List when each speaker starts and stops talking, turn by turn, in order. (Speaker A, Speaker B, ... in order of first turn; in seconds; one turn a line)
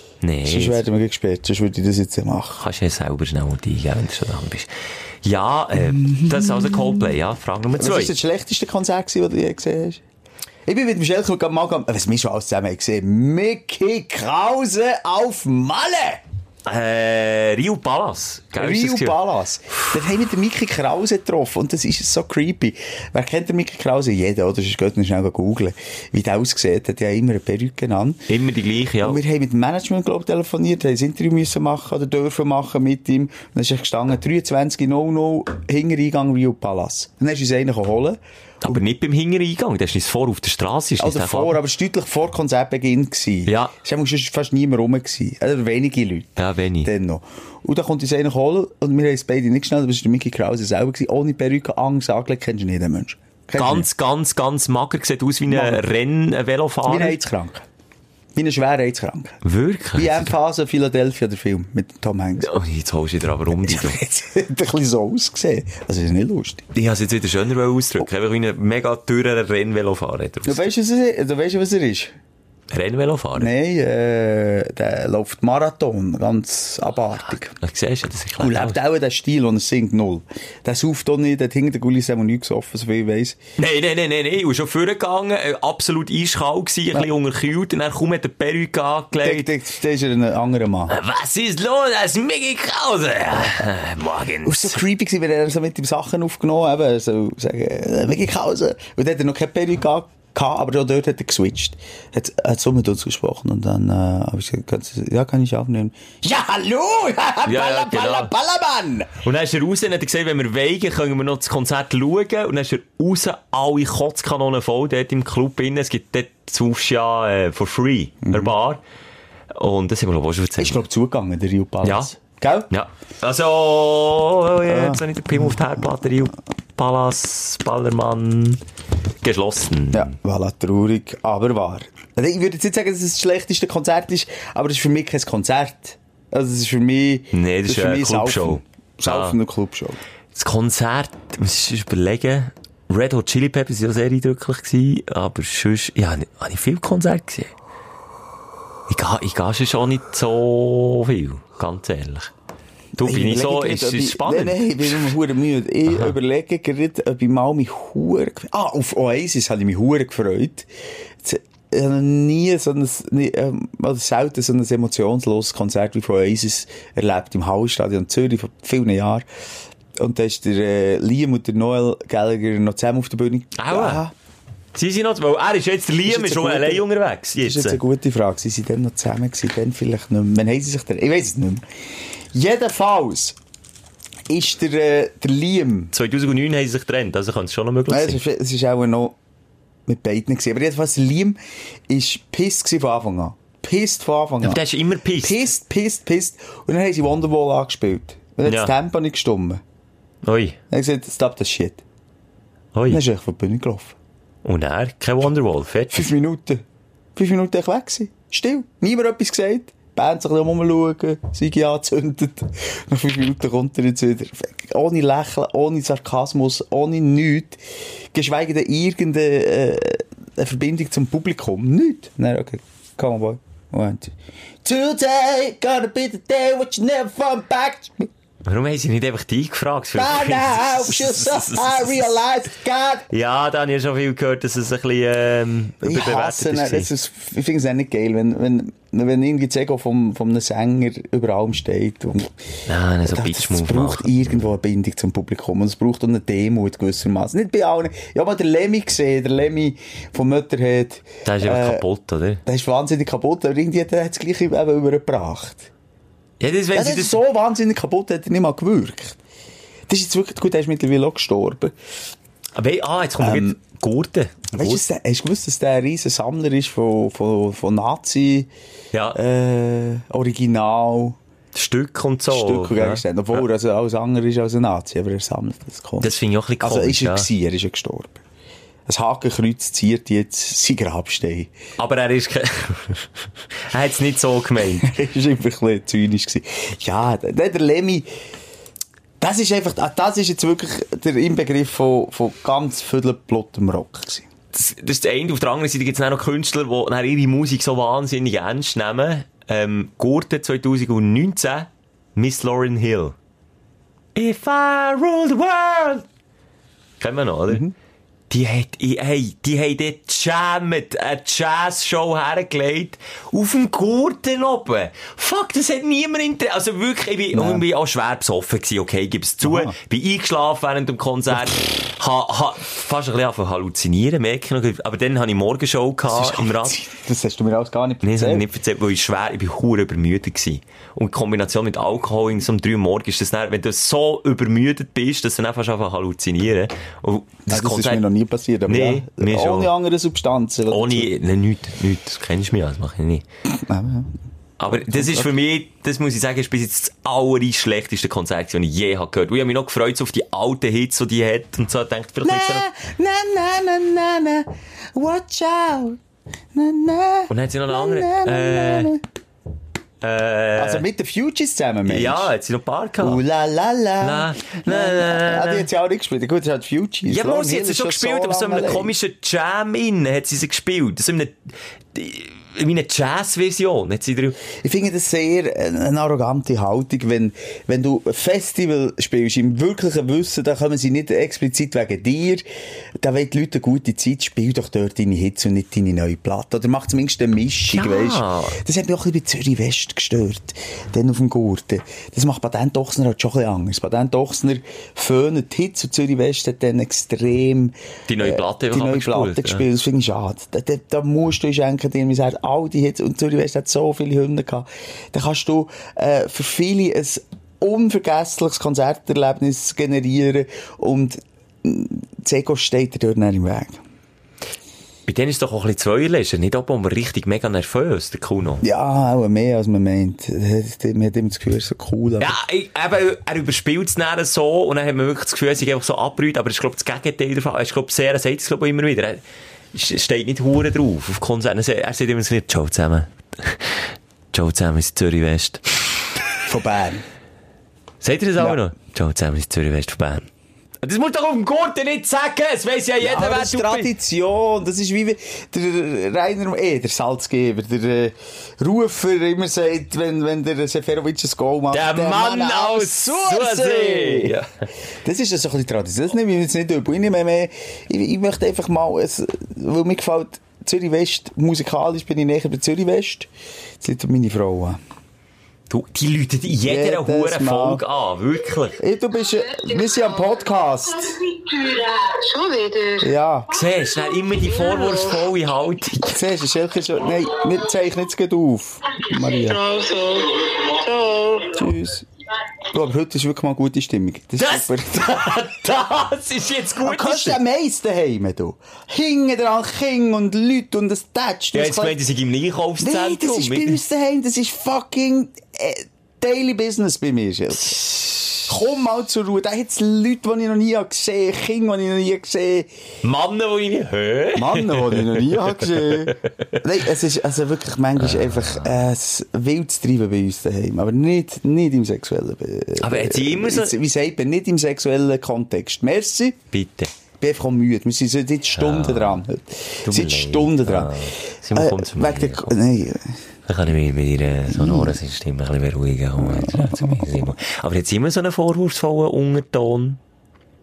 Speaker A: 0.2-0.8
Speaker B: 0.5-2.6
Speaker A: 2.6-4.7
Speaker A: 5.2-8.1
Speaker B: 5.8-7.1
Speaker B: 7.7-10.0
Speaker B: 10.7-16.2
Speaker A: 16.6-19.2
Speaker B: 18.6-28.2
Speaker A: 28.3-29.2
Speaker B: 29.0-38.8
Speaker A: 38.6-41.6
Speaker B: 41.0-53.9
Speaker A: 43.5-43.7
Speaker A: 46.4-46.9
Speaker A: 53.5-57.2
Speaker B: 55.5-55.9
Speaker B: 56.9-57.6
Speaker B: 58.3-59.4
Speaker A: 59.4-60.3
Speaker B: 59.9-62.5
Speaker A: 62.4-64.0
Speaker B: 63.5-66.6
Speaker A: 66.7-70.7
Speaker B: 70.4-72.1
Speaker A: 72.7-73.5
Speaker B: 73.3-77.5
Speaker A: 77.5-78.8
Speaker B: 78.4-83.4
Speaker A: 83.6-89.5
Speaker B: 89.2-90.9
Speaker A: 90.9-94.8
Speaker B: 94.4-109.2
Speaker A: 107.4-108.3
Speaker A: 109.2-118.8
Speaker B: 118.2-118.5
Speaker A: 119.5-120.8
Speaker B: 120.6-122.7
Speaker A: 121.8-122.1
Speaker A: 122.7-128.6
Speaker B: 124.6-125.7
Speaker A: 129.2-130.1
Speaker B: 129.9-140.0
Speaker A: 137.3-139.4
Speaker A: 140.3-147.5
Speaker A: 148.9-152.3
Speaker B: 153.0-160.7
Speaker A: 153.0-155.1
Speaker A: 155.9-156.1
Speaker B: 161.2-169.2
Speaker B: 169.9-174.1
Speaker A: 173.6-174.0
Speaker A: 174.7-177.8
Speaker B: 176.0-181.6
Speaker B: 182.3-183.4
Speaker B: 184.3-185.9
Speaker A: 185.9-188.2
Speaker B: 187.9-189.2
Speaker B: 189.9-194.6
Speaker A: 194.4-195.5
Speaker B: 195.2-199.6
Speaker A: 198.4-198.7
Speaker A: 200.2-200.6
Speaker B: 200.7-201.8
Speaker A: 202.7-203.0
Speaker B: 202.9-203.9
Speaker A: 204.4-206.1
Speaker B: 205.9-206.6
Speaker B: 207.2-217.6
Speaker B: 218.1-224.1
Speaker B: 224.6-228.1
Speaker A: 228.4-232.1
Speaker B: 229.9-233.1
Speaker A: 233.1-236.9
Speaker B: 235.8-242.3
Speaker A: 242.7-244.1
Speaker B: 243.0-251.8
Speaker A: 251.2-252.4
Speaker B: 252.4-255.7
Speaker A: 256.4-257.2
Speaker B: 256.7-259.2
Speaker B: 259.9-261.7
Speaker A: 262.6-264.8
Speaker B: 263.2-263.6
Speaker B: 264.5-268.5
Speaker A: 268.9-269.2
Speaker B: 269.1-271.2
Speaker A: 271.5-273.4
Speaker B: 272.3-278.2
Speaker A: 276.0-277.3
Speaker B: 278.9-281.5
Speaker A: 281.8-283.1
Speaker A: 283.7-284.9
Speaker B: 284.8-288.1
Speaker B: 289.2-294.3
Speaker A: 294.5-303.1
Speaker A: 304.1-306.1
Speaker A: 307.0-307.6
Speaker B: 307.5-307.7
Speaker A: 308.3-326.8
Speaker B: 317.3-317.6
Speaker B: 319.4-319.8
Speaker B: 326.1-328.5
Speaker A: 328.0-338.0
Speaker B: 337.5-341.1
Speaker A: 338.7-339.7
Speaker A: 340.7-343.2
Speaker B: 343.5-344.2
Speaker A: 344.6-352.6
Speaker B: 344.7-345.3
Speaker B: 352.2-356.0
Speaker B: 356.5-359.0
Speaker A: 357.3-358.9
Speaker A: 360.0-360.8
Speaker B: 360.6-362.3
Speaker A: 361.9-363.2
Speaker B: 363.0-368.9
Speaker A: 364.0-365.7
Speaker A: 367.1-374.4
Speaker B: 374.5-382.4
Speaker B: 383.0-413.8
Speaker A: 387.7-388.6
Speaker A: 398.1-399.6
Speaker A: 415.1-418.6
Speaker B: 418.6-422.3
Speaker A: 422.2-429.2
Speaker A: 429.7-436.1
Speaker B: 436.5-437.0
Speaker A: 438.0-440.3
Speaker A: 440.8-443.9
Speaker B: 443.0-454.4
Speaker A: 451.7-454.6
Speaker B: 455.0-463.3
Speaker B: 463.8-464.8
Speaker A: 465.7-468.8
Speaker B: 466.6-467.8
Speaker B: 468.8-471.2
Speaker C: 469.3-470.4
Speaker C: 471.0-473.1
Speaker B: 473.0-473.5
Speaker A: 473.5-476.2
Speaker C: 474.1-475.2
Speaker B: 476.1-479.6
Speaker C: 479.2-481.6
Speaker B: 481.5-482.1
Speaker B: 482.7-485.3
Speaker A: 484.4-487.4
Speaker B: 486.8-492.0
Speaker A: 491.5-493.8
Speaker B: 492.8-502.7
Speaker A: 498.0-498.3
Speaker A: 503.0-506.6
Speaker B: 504.3-516.4
Speaker A: 508.0-508.7
Speaker A: 512.8-513.8
Speaker A: 516.5-516.9
Speaker B: 517.2-523.2
Speaker A: 518.5-519.2
Speaker A: 519.8-522.5
Speaker A: 523.5-530.0
Speaker B: 524.5-524.9
Speaker B: 526.2-527.3